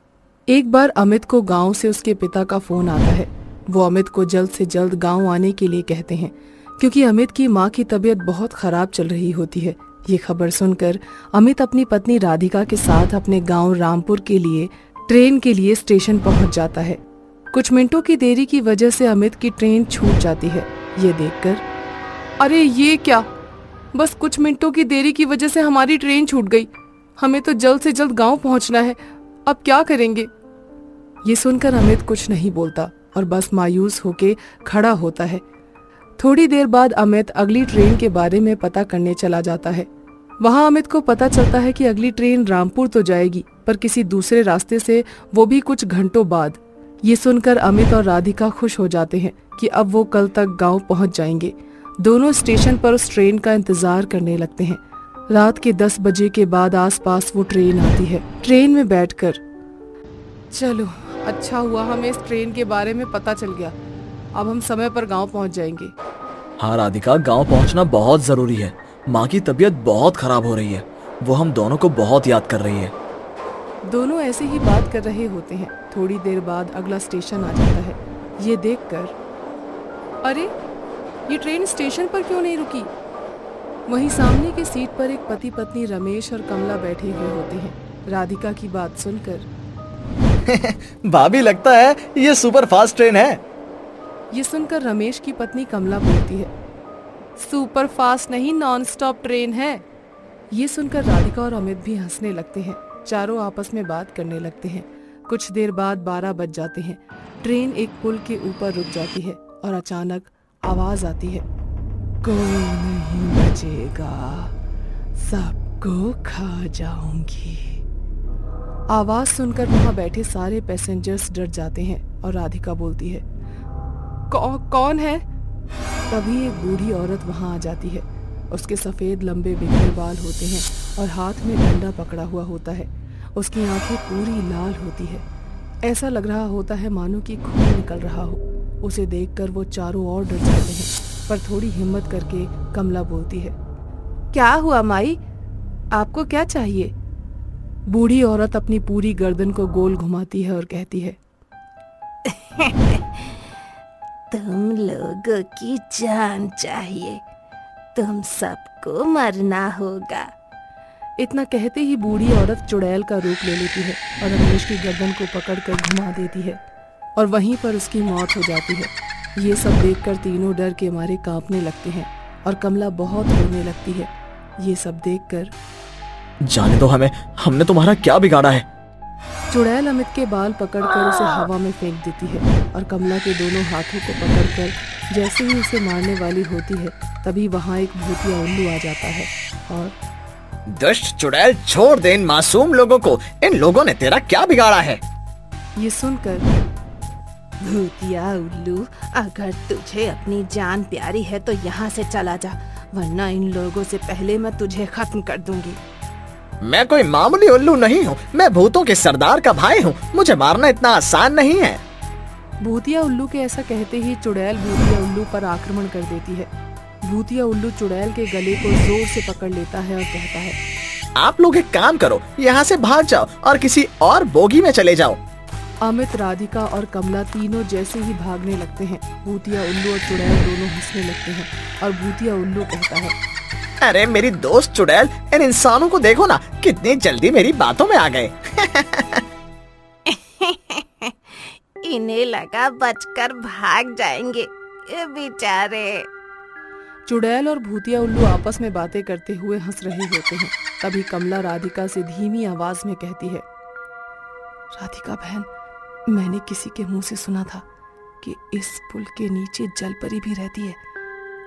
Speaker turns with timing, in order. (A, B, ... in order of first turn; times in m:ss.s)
0:00.5-0:17.0 A
0:17.5-0:21.6 A
0:22.4-0:23.3 A
0:23.9-0:30.3 A
0:31.2-0:35.4 A
0:36.2-0:39.9 A
0:40.4-0:59.4 A
1:00.5-1:03.7 A
1:04.4-1:05.9 A
1:06.6-1:12.9 B
1:13.9-1:19.2 A
1:20.2-1:20.5 A
1:21.3-1:22.9 A
1:23.9-1:29.5 A
1:30.5-1:33.4 B
1:34.3-1:36.5 A
1:37.4-1:39.8 A
1:40.5-1:51.4 A
1:52.2-1:54.5 A
1:55.2-1:57.8 A
1:58.9-2:03.2 A
2:04.3-2:05.2 A
2:06.1-2:15.2 A
2:15.8-2:23.6 A
2:24.3-2:25.2 A
2:25.9-2:26.9 A
2:27.9-2:31.2 A
2:32.6-2:33.2 C
2:34.3-2:37.2 C
2:38.0-2:40.3 C
2:41.2-2:46.6 A
2:47.2-2:54.1 A
2:54.6-2:55.5 A
2:56.5-2:58.7 B
2:59.5-3:10.0 A
3:10.7-3:15.0 B
3:15.8-3:16.5 A
3:17.6-3:25.8 C
3:26.6-3:31.8 B
3:32.6-3:36.5 A
3:37.0-3:40.6 A
3:41.2-3:45.2 B
3:45.8-3:53.2 A
3:53.8-3:59.2 B
4:00.1-4:06.1 C
4:07.1-4:13.4 A
4:14.8-4:15.5 A
4:16.1-4:17.6 A
4:18.2-4:20.8 A